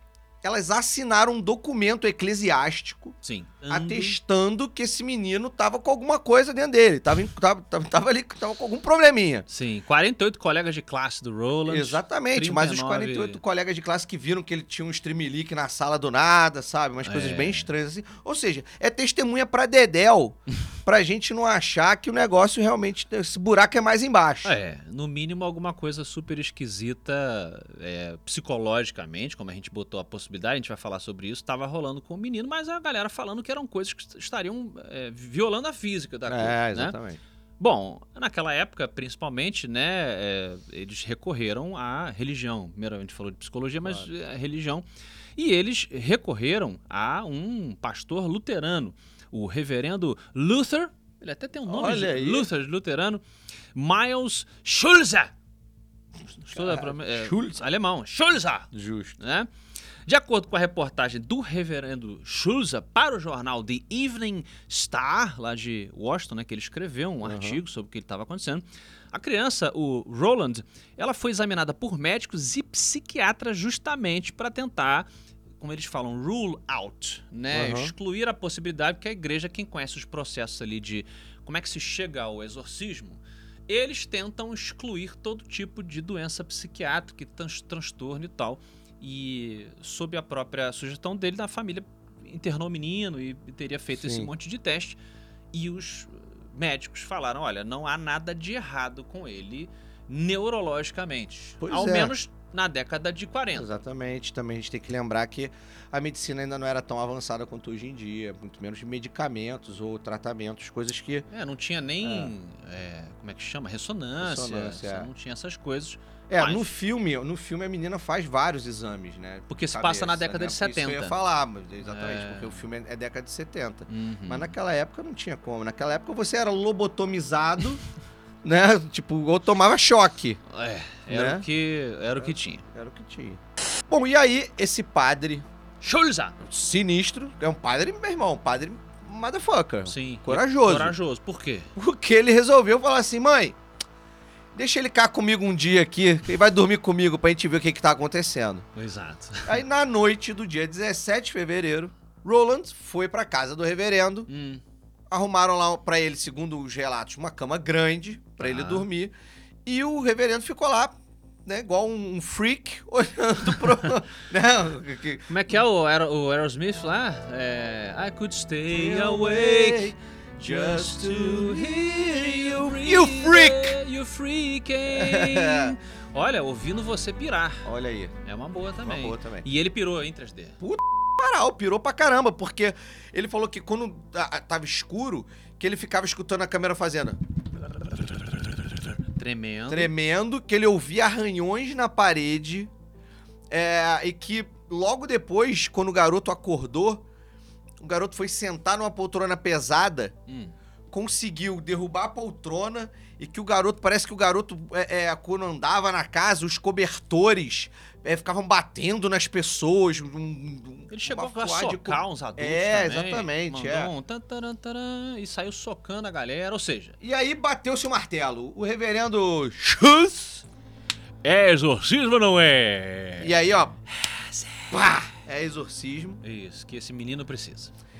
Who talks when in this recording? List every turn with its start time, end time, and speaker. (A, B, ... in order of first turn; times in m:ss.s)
0:00.4-0:03.2 A
0:03.2-0:04.2 B
0:03.7-0:09.4 A
0:09.5-0:13.4 B
0:11.7-0:24.6 A
0:17.0-0:17.7 B
0:24.4-0:37.0 B
0:36.3-0:37.2 A
0:37.6-0:44.8 B
0:45.4-0:53.2 B
0:51.7-0:52.5 A
0:53.7-0:55.3 B
0:56.3-0:59.5 B
0:56.5-0:57.6 A
0:58.7-0:59.2 A
1:00.0-1:15.1 B
1:07.2-1:07.6 A
1:15.6-1:35.0 B
1:17.5-1:17.9 A
1:33.9-1:34.3 A
1:35.5-1:43.7 B
1:41.6-1:42.1 A
1:43.5-1:51.3 A
1:51.3-1:56.7 B
1:52.0-1:52.3 A
1:54.2-1:55.1 A
1:56.3-2:07.8 A
1:59.5-2:01.2 B
2:01.8-2:02.6 B
2:03.9-2:04.6 B
2:08.4-2:10.4 A
2:10.5-2:12.7 B
2:11.1-2:11.4 A
2:12.2-2:15.5 A
2:15.8-2:16.4 B
2:16.4-2:21.0 A
2:19.8-2:21.7 B
2:21.8-2:23.6 A
2:24.5-2:28.7 A
2:28.8-2:29.6 B
2:29.4-2:34.3 A
2:34.3-2:34.6 B
2:35.1-2:39.1 A
2:38.4-2:38.9 B
2:39.6-2:45.3 A
2:45.3-2:57.7 B
2:48.7-2:53.8 A
2:54.9-2:55.7 A
2:57.6-2:58.1 A
2:58.2-3:00.6 B
2:58.8-2:59.5 A
3:00.6-3:07.2 A
3:09.1-3:09.9 B
3:09.7-3:12.7 A
3:13.5-3:17.0 A
3:17.8-3:20.1 A
3:20.3-3:20.5 B
3:20.9-3:33.9 A
3:30.9-3:37.0 B
3:37.0-3:40.4 A
3:41.2-3:43.4 B
3:43.2-3:43.8 A
3:43.9-3:44.9 B
3:44.7-3:46.2 A
3:46.2-3:47.7 B